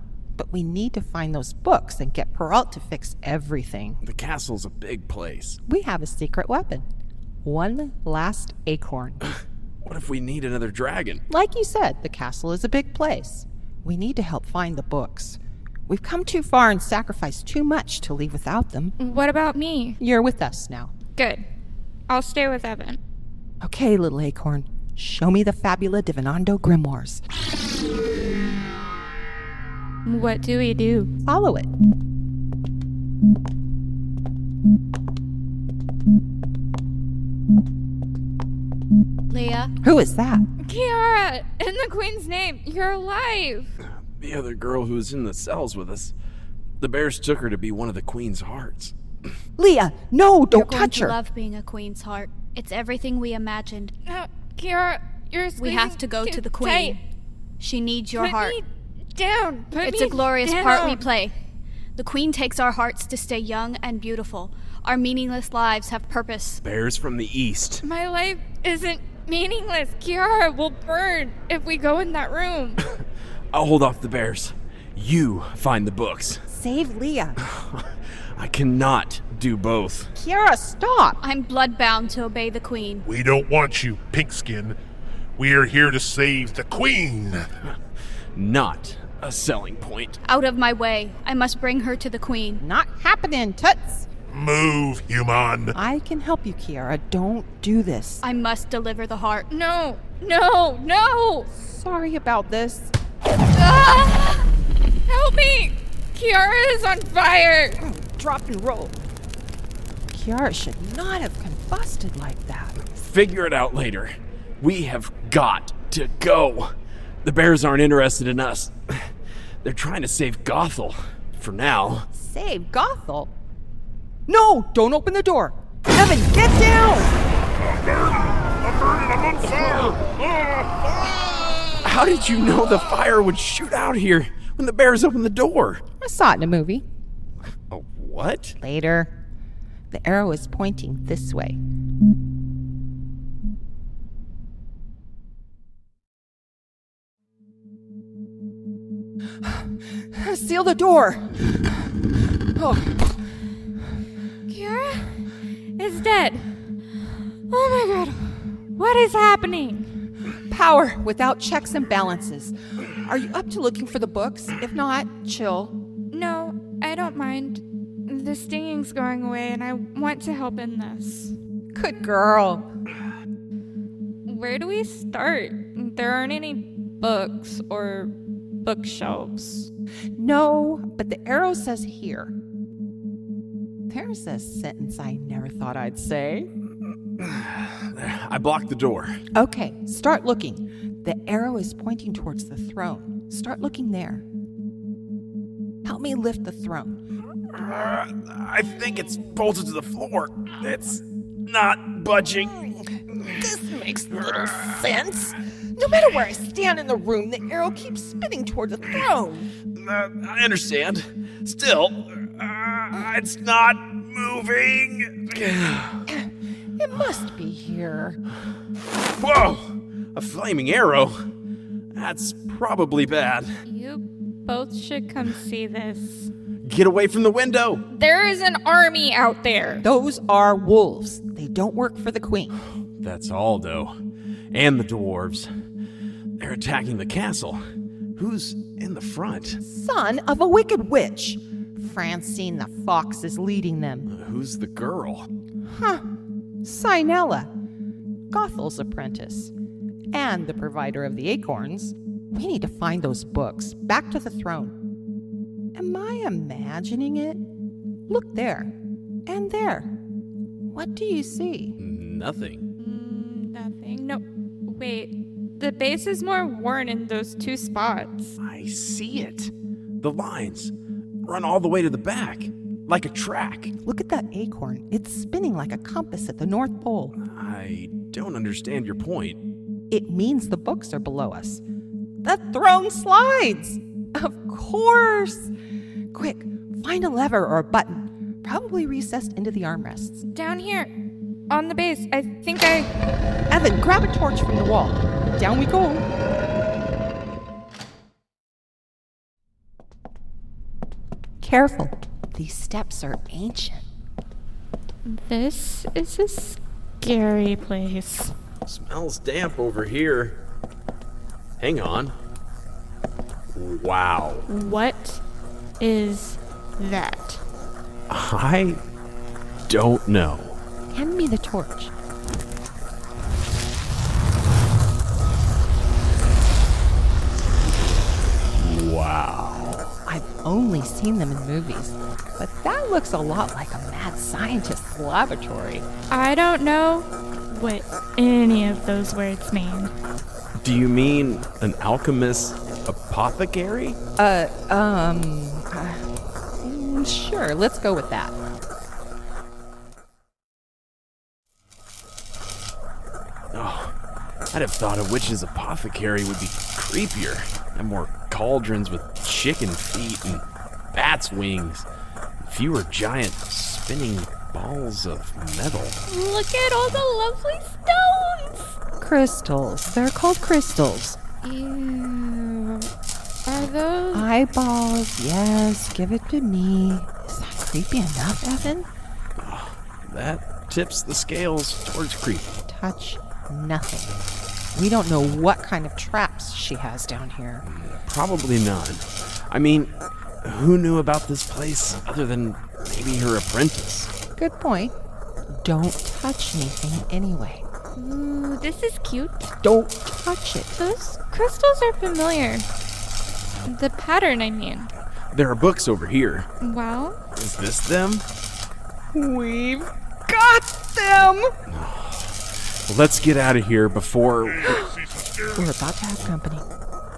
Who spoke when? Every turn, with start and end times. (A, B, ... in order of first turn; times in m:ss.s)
0:00.4-0:04.0 A
0:04.0-0:05.6 B
0:05.7-0:06.8 A
0:07.4-0:09.2 A
0:09.8-0:11.2 B
0:11.3-0:19.0 A
0:19.0-0:20.0 C
0:20.0-0:20.9 A
0:21.2-0:21.4 C
0:22.1-0:23.0 C
0:23.6-0:27.2 A
0:30.1-0:31.1 C
0:31.2-0:31.7 A
0:39.3-0:39.7 D
0:39.8-0:40.5 A
0:40.6-0:43.7 C
0:44.2-0:46.1 B
0:46.8-0:49.0 B
0:49.6-0:51.2 A
0:50.5-0:53.9 D
0:54.1-0:57.0 C
0:55.6-0:57.0 D
0:57.6-0:58.6 D
0:58.1-1:01.1 C
0:59.8-1:01.3 D
1:02.0-1:06.6 D
1:06.6-1:07.8 B
1:07.8-1:12.8 C
1:13.5-1:16.4 B
1:16.5-1:17.4 A
1:17.4-1:20.1 B
1:20.2-1:21.2 A
1:21.2-1:23.0 D
1:23.0-1:24.8 E
1:25.4-1:27.5 E
1:28.4-1:30.2 B
1:30.3-1:32.6 D
1:32.6-1:34.1 A
1:34.3-1:35.8 E
1:35.8-1:38.2 A
1:38.2-1:39.5 D
1:39.5-1:41.5 C
1:41.6-1:42.9 A
1:43.5-1:44.5 C
1:45.1-1:47.8 C
1:47.8-1:49.0 A
1:50.1-1:52.8 A
1:52.9-1:56.7 B
1:57.2-1:59.1 B
1:59.6-2:02.1 B
2:02.1-2:03.3 A
2:04.3-2:07.1 A
2:09.4-2:10.0 B
2:11.8-2:15.8 B
2:16.0-2:16.8 A
2:17.7-2:18.6 B
2:18.6-2:19.1 A
2:19.9-2:21.6 A
2:30.1-2:31.5 A
2:32.6-2:33.2 A
2:34.5-2:35.2 C
2:35.8-2:36.5 C
2:37.5-2:39.9 C
2:40.5-2:45.8 A
2:46.1-2:51.3 C
2:51.7-2:52.7 A
2:54.3-2:59.7 C
3:00.2-3:02.3 A
3:03.9-3:06.5 A
3:07.2-3:09.2 B
3:09.4-3:14.2 A
3:15.8-3:17.0 A
3:17.5-3:22.7 B
3:23.4-3:29.5 A
3:29.8-3:36.0 B
3:36.1-3:38.2 A
3:39.2-3:41.2 B
3:42.0-3:43.5 B
3:43.7-3:46.3 C
3:46.6-3:47.8 B
3:47.9-3:49.8 C
3:49.8-3:52.5 A
3:53.0-3:54.0 B
3:54.5-3:55.5 B
3:56.4-3:57.6 B
3:58.2-3:59.6 B
3:59.6-4:04.1 A
4:04.1-4:05.3 B
4:05.7-4:06.0 A
4:06.6-4:07.5 A
4:08.3-4:09.5 A
4:10.1-4:14.7 A
4:15.8-4:17.4 A
4:18.1-4:18.7 A
4:19.3-4:19.9 A
4:20.7-4:21.8 A
4:21.8-4:22.6 B
4:22.8-4:28.4 C
4:28.4-4:30.7 B
4:31.3-4:33.7 B
4:33.8-4:37.1 A
4:37.2-4:39.4 B
4:39.9-4:41.6 A
4:42.2-4:45.5 A
4:46.1-4:50.2 A
4:50.3-4:50.9 C
4:51.5-4:52.9 C
4:53.5-4:56.1 A
5:01.4-5:03.8 A
5:05.1-5:08.3 C
5:08.7-5:10.4 B
5:11.6-5:12.1 B
5:13.5-5:14.5 B
5:14.5-5:15.2 C
5:15.8-5:17.4 C
5:18.1-5:18.8 B
5:19.7-5:20.6 B
5:20.9-5:21.9 A
5:28.6-5:29.9 B
5:30.1-5:35.9 A
5:36.1-5:39.9 C
5:40.6-5:44.0 B
5:44.2-5:46.1 A
5:46.6-5:48.4 A
5:53.5-5:53.9 B
5:54.5-6:00.4 B
6:00.9-6:01.9 B
6:02.4-6:06.0 B
6:06.1-6:08.8 C
6:09.0-6:11.2 A
6:11.4-6:12.9 C
6:13.5-6:14.3 C
6:14.1-6:18.9 A
6:19.4-6:22.5 B
6:22.7-6:24.2 A
6:24.8-6:27.6 A
6:27.7-6:29.9 B
6:30.4-6:34.1 B
6:34.4-6:34.9 A
6:35.5-6:37.6 A
6:38.0-6:39.5 C
6:39.6-6:40.7 A
6:40.8-6:42.7 C
6:43.6-6:44.9 C
6:45.3-6:46.5 B
6:46.6-6:47.2 C
6:47.4-6:48.2 B
6:49.1-6:51.5 A
6:51.7-6:54.8 B
6:55.5-6:56.6 A